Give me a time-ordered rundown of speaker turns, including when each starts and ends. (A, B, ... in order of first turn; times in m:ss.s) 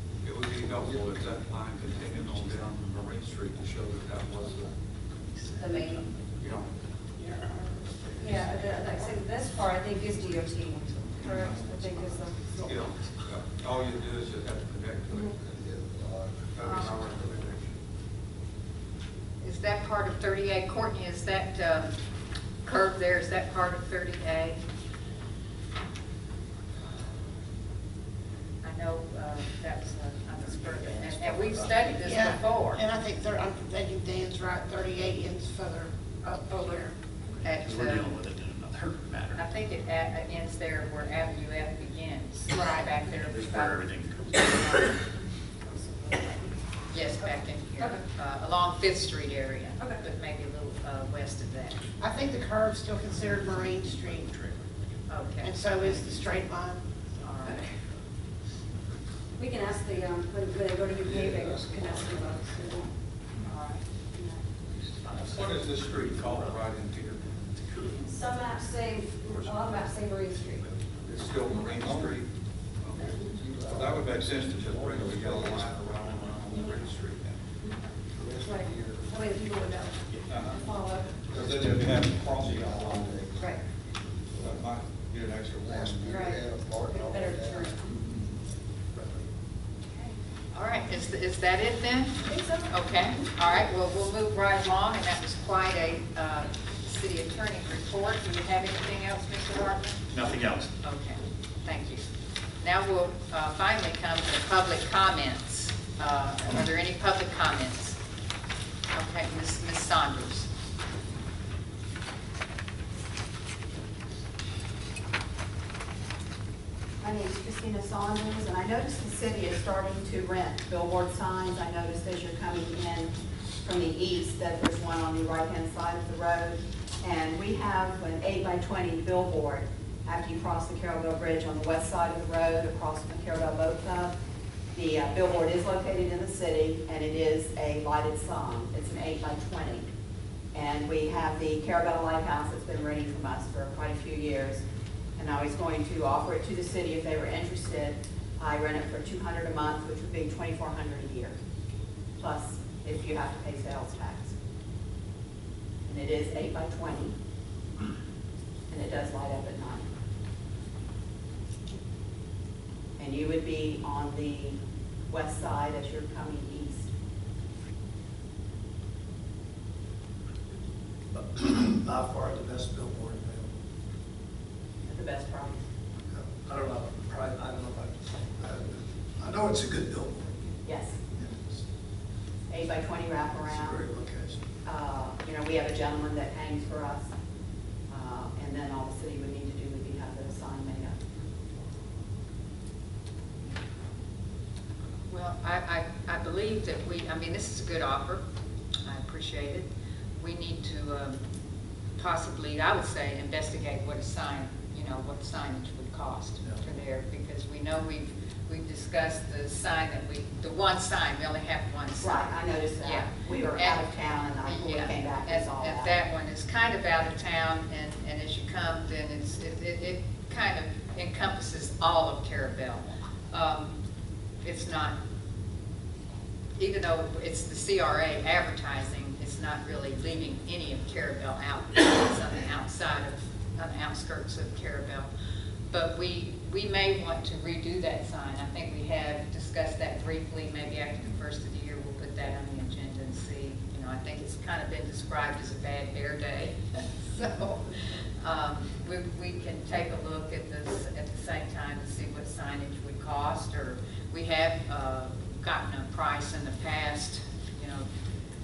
0:00.2-0:04.7 A
0:05.6-0:06.1 B
0:06.4-0:06.7 A
0:08.2-0:12.8 B
0:11.2-0:11.5 A
0:12.7-0:15.3 A
0:15.4-0:17.2 C
0:16.6-0:17.7 A
0:19.4-0:21.9 D
0:22.6-0:24.6 D
0:28.6-0:32.8 D
0:30.6-0:32.1 E
0:32.0-0:36.8 F
0:36.5-0:36.8 D
0:37.4-0:38.1 D
0:37.4-0:39.4 E
0:39.4-0:43.8 D
0:43.0-0:44.9 E
0:45.8-0:46.5 B
0:46.9-0:51.8 D
0:47.2-0:48.0 B
0:49.8-0:50.0 B
0:52.0-0:54.3 F
0:53.2-0:54.7 E
0:55.1-0:55.5 D
0:55.4-0:56.8 F
0:57.2-0:57.6 D
0:59.4-1:02.9 B
1:01.1-1:01.8 C
1:03.5-1:03.8 D
1:05.1-1:08.1 A
1:08.0-1:10.6 B
1:09.4-1:09.8 A
1:11.0-1:12.3 A
1:11.5-1:12.1 B
1:12.8-1:17.4 A
1:13.0-1:13.4 B
1:13.4-1:15.8 C
1:18.4-1:21.2 B
1:20.3-1:20.6 A
1:21.3-1:23.4 A
1:24.4-1:26.2 A
1:25.6-1:27.7 C
1:26.0-1:27.9 B
1:30.0-1:40.0 D
1:32.2-1:32.7 B
1:40.1-1:40.7 E
1:40.8-1:42.0 D
1:42.6-1:48.0 D
1:48.9-1:50.5 D
1:57.0-2:14.2 G
2:14.7-2:19.9 G
2:20.5-2:24.6 G
2:25.2-2:31.4 G
2:32.2-2:34.4 G
2:35.8-2:37.2 G
2:38.7-2:39.9 G
2:43.0-2:46.9 G
2:51.1-2:53.6 C
2:54.8-2:55.6 G
2:56.1-3:00.5 C
3:00.6-3:01.0 G
3:01.1-3:01.6 C
3:02.5-3:03.8 G
3:03.4-3:04.4 C
3:04.6-3:07.1 G
3:07.9-3:11.0 G
3:15.1-3:18.2 D
3:18.8-3:19.7 D
3:20.2-3:21.2 D
3:22.0-3:33.9 D
3:32.0-3:36.0 G
3:34.4-3:43.8 D
3:44.4-3:45.0 D
3:46.6-3:55.1 D
3:55.7-4:07.7 D
4:08.2-4:17.9 D